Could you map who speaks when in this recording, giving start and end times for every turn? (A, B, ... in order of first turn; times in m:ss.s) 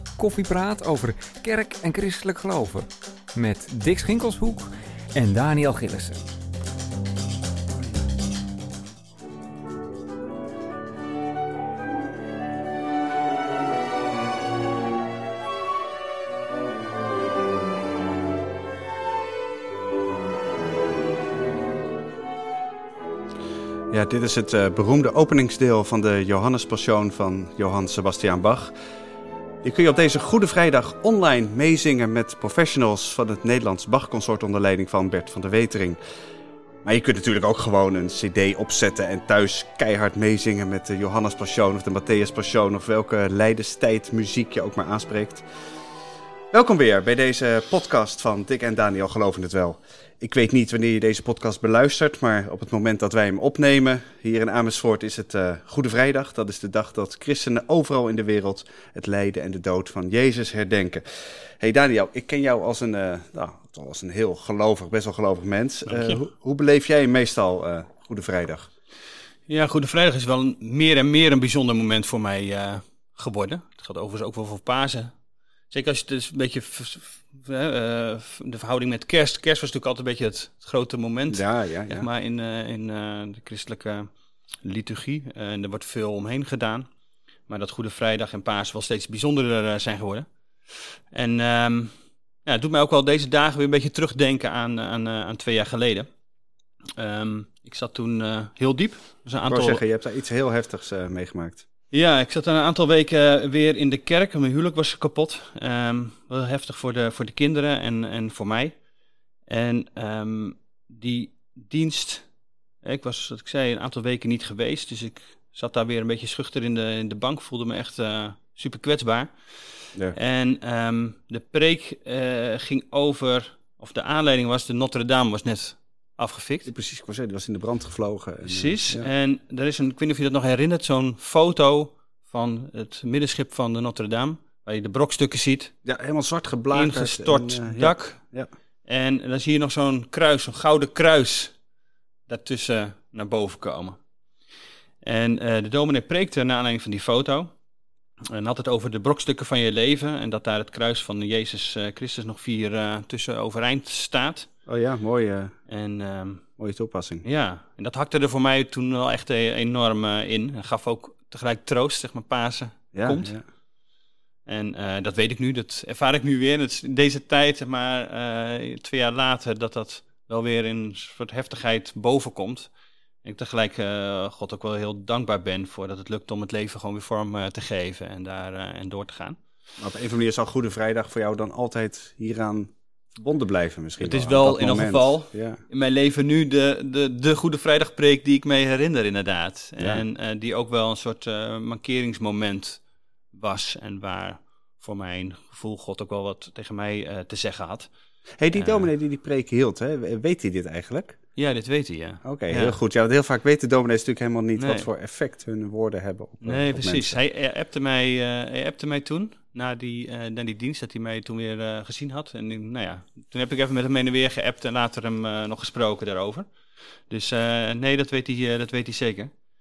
0:00.2-0:06.3 A
0:23.9-0:28.7 B
0:29.6-0:36.0 B
0:36.8-0:45.4 B
0:46.5-1:08.7 B
1:05.9-1:06.2 C
1:09.5-1:15.1 C
1:15.7-1:24.1 C
1:21.3-1:22.1 B
1:24.6-1:26.9 C
1:27.5-1:36.1 C
1:37.0-1:39.8 C
1:39.4-1:41.6 B
1:41.9-1:48.8 C
1:49.5-1:52.2 C
1:52.8-2:06.7 C
2:06.6-2:09.1 B
2:08.4-2:15.7 C
2:15.8-2:18.5 B
2:16.7-2:18.2 C
2:18.9-2:21.5 C
2:22.3-2:24.0 C
2:25.0-2:27.5 C
2:28.3-2:34.5 C
2:34.7-2:35.6 B
2:35.7-2:36.4 C
2:36.6-2:37.2 B
2:37.2-2:43.3 C
2:42.9-2:43.4 B
2:44.4-2:52.7 C
2:53.2-2:59.4 C
2:59.8-3:05.6 B
3:04.0-3:17.9 C
3:09.8-3:10.0 B
3:18.4-3:21.2 B
3:18.5-3:18.9 C
3:21.4-3:22.8 C
3:22.2-3:27.2 B
3:24.6-3:24.9 C
3:26.4-3:36.4 C
3:37.1-3:39.3 C